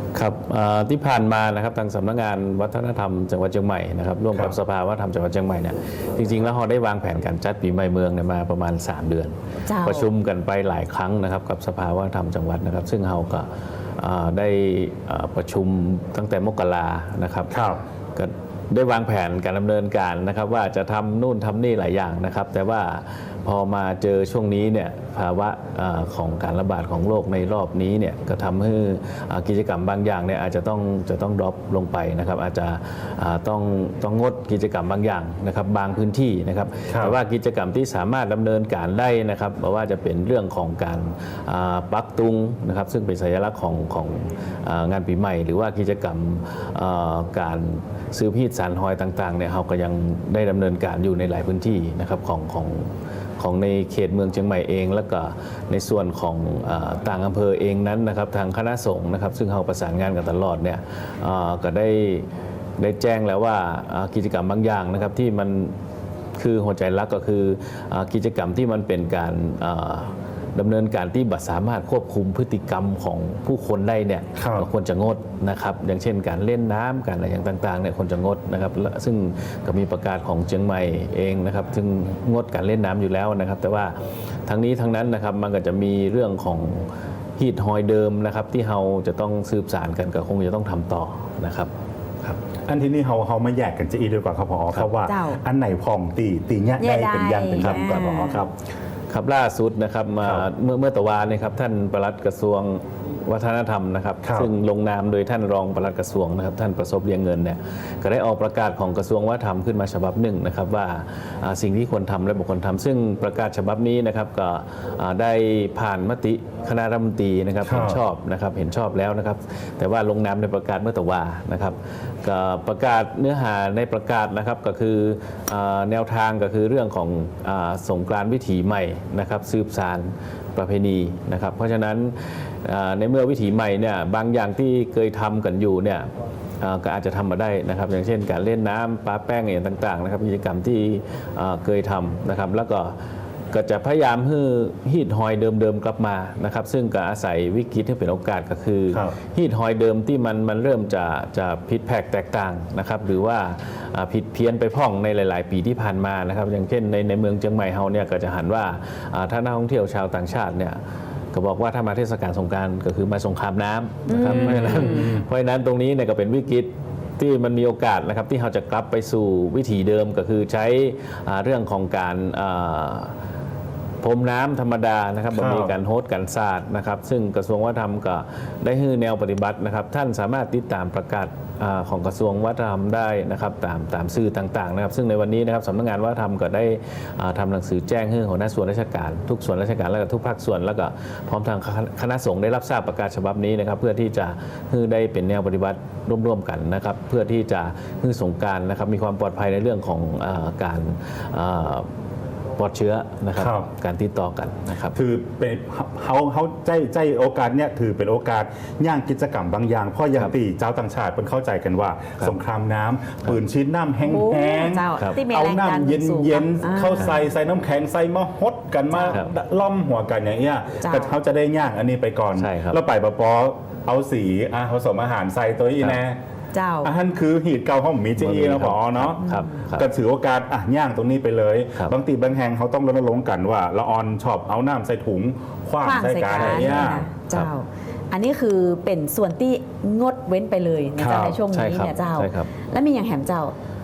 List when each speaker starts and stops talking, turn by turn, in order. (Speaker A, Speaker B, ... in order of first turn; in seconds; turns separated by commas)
Speaker A: 0.1-13.5, Speaker B: 9.7-10.1, Speaker A: 14.0-17.5, Speaker C: 17.5-17.8, Speaker A: 18.1-62.3, Speaker C: 36.9-37.1, Speaker A: 62.8-65.7, Speaker A: 66.4-83.9, Speaker C: 74.3-74.7, Speaker A: 84.5-91.7, Speaker C: 92.7-98.5, Speaker B: 95.0-95.4, Speaker B: 96.8-98.4, Speaker A: 97.5-98.4, Speaker A: 99.1-136.1, Speaker C: 104.2-104.5, Speaker C: 117.6-118.0, Speaker A: 136.6-142.9, Speaker A: 143.5-160.8, Speaker A: 161.3-173.1, Speaker B: 164.1-165.2, Speaker A: 174.0-201.9, Speaker C: 175.3-175.8, Speaker A: 202.6-204.9, Speaker C: 203.3-203.7, Speaker C: 204.9-226.2, Speaker B: 214.0-217.2, Speaker B: 218.9-219.3, Speaker B: 220.8-221.1, Speaker A: 222.4-222.8, Speaker B: 226.5-226.9, Speaker C: 226.8-237.0, Speaker A: 228.2-229.9, Speaker B: 235.8-243.5, Speaker A: 236.3-237.5, Speaker C: 241.0-241.4, Speaker A: 241.5-242.5